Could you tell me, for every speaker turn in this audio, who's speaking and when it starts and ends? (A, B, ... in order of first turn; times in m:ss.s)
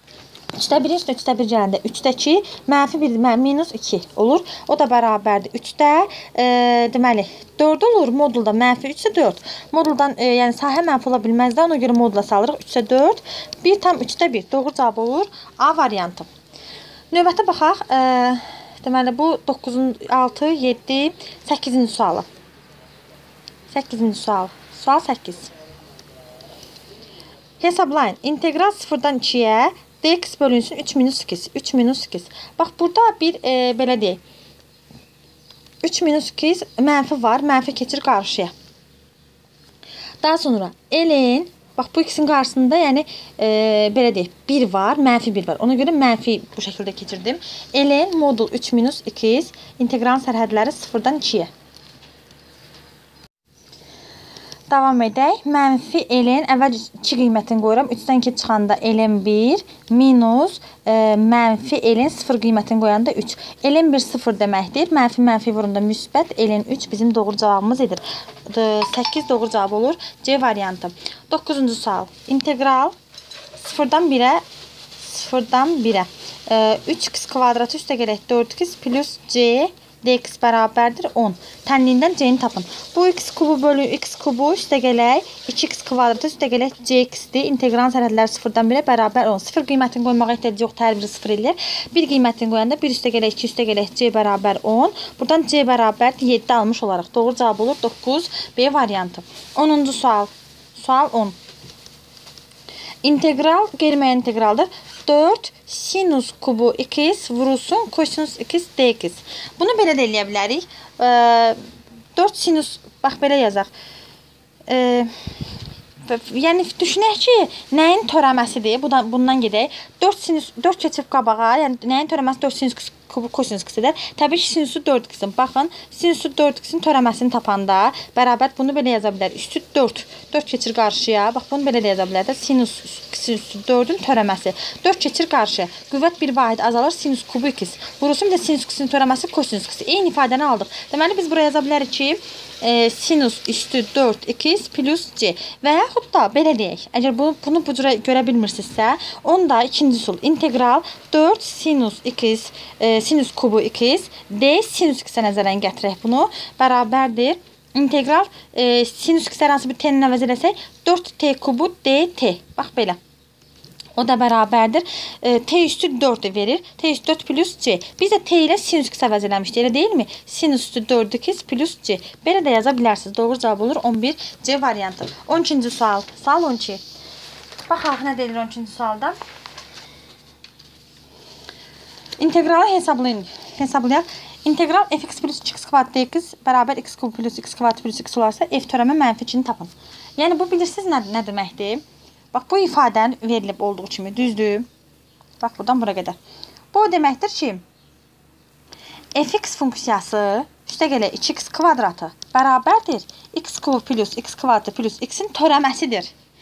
0:00.5-0:16.3 A
0:17.1-0:22.3 A
0:23.7-0:25.5 A
0:27.6-0:34.2 A
0:35.8-0:38.5 A
0:40.2-0:51.5 A
0:54.7-1:13.0 A
1:13.6-1:14.4 A
1:15.0-1:41.4 A
1:43.0-1:51.6 A
1:52.2-1:53.7 A
1:54.7-1:55.1 A
1:56.1-2:43.0 A
2:44.0-2:56.8 A
2:57.7-2:59.2 A
3:02.2-3:14.7 A
3:15.4-3:16.2 A
3:16.7-3:17.6 A
3:19.2-3:26.1 A